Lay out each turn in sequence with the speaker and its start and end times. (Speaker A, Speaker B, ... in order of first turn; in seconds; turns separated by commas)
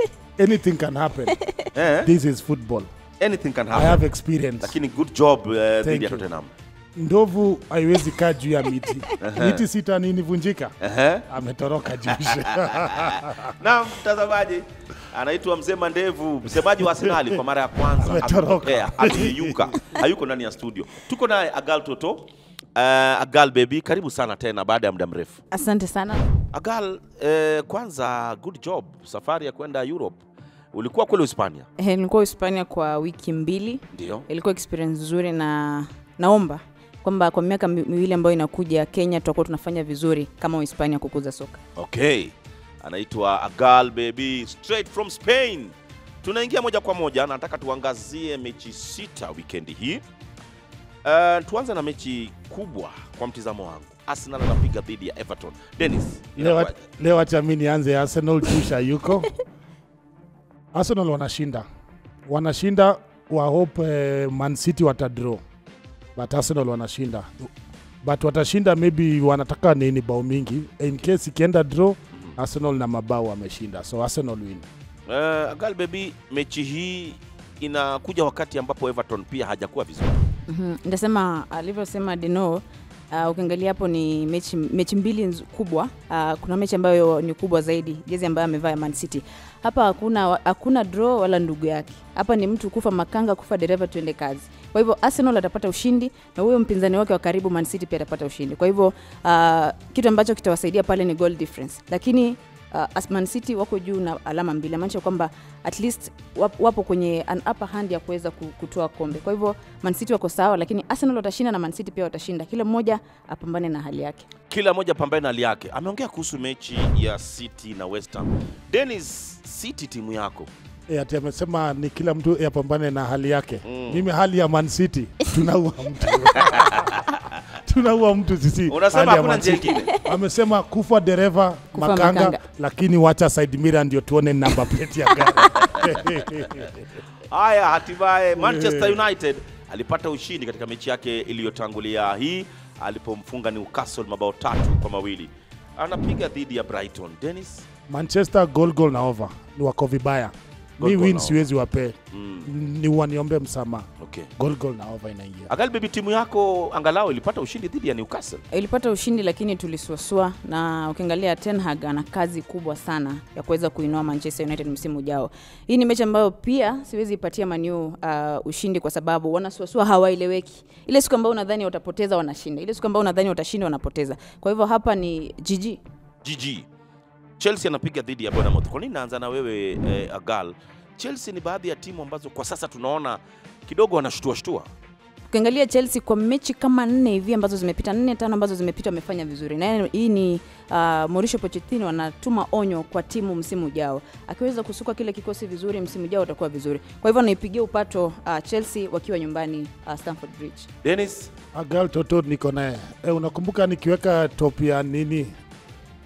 Speaker A: 0.4-1.5, Speaker B: 1.7-2.1, Speaker A: 2.0-2.9, Speaker B: 3.2-4.0, Speaker A: 3.7-4.7, Speaker B: 4.6-6.5, Speaker A: 5.8-6.2, Speaker A: 7.0-10.7, Speaker B: 9.2-9.6, Speaker B: 10.8-11.3, Speaker A: 11.3-13.5, Speaker B: 12.1-25.4, Speaker A: 18.0-19.8, Speaker C: 25.5-26.2, Speaker B: 26.5-30.2, Speaker B: 30.7-31.7, Speaker C: 31.8-41.6, Speaker B: 33.9-34.2, Speaker B: 41.8-50.0, Speaker B: 51.0-56.7, Speaker A: 56.4-59.3, Speaker A: 60.7-61.6, Speaker A: 62.3-65.4, Speaker A: 66.2-67.5, Speaker A: 68.0-74.7, Speaker B: 75.1-80.2, Speaker C: 80.5-114.2, Speaker B: 114.5-120.5, Speaker A: 120.9-127.0, Speaker B: 123.6-124.1, Speaker B: 126.4-126.9, Speaker A: 127.6-136.8, Speaker B: 128.7-129.9, Speaker C: 131.7-132.4, Speaker B: 135.5-135.9, Speaker B: 137.3-147.6, Speaker A: 138.3-139.0, Speaker A: 147.9-155.5, Speaker B: 150.8-151.4, Speaker B: 152.1-152.5, Speaker B: 154.0-154.3, Speaker B: 155.5-158.4, Speaker C: 158.5-175.8, Speaker B: 176.2-176.7, Speaker B: 177.4-184.7, Speaker C: 185.3-200.7, Speaker B: 200.8-201.3, Speaker A: 201.5-205.3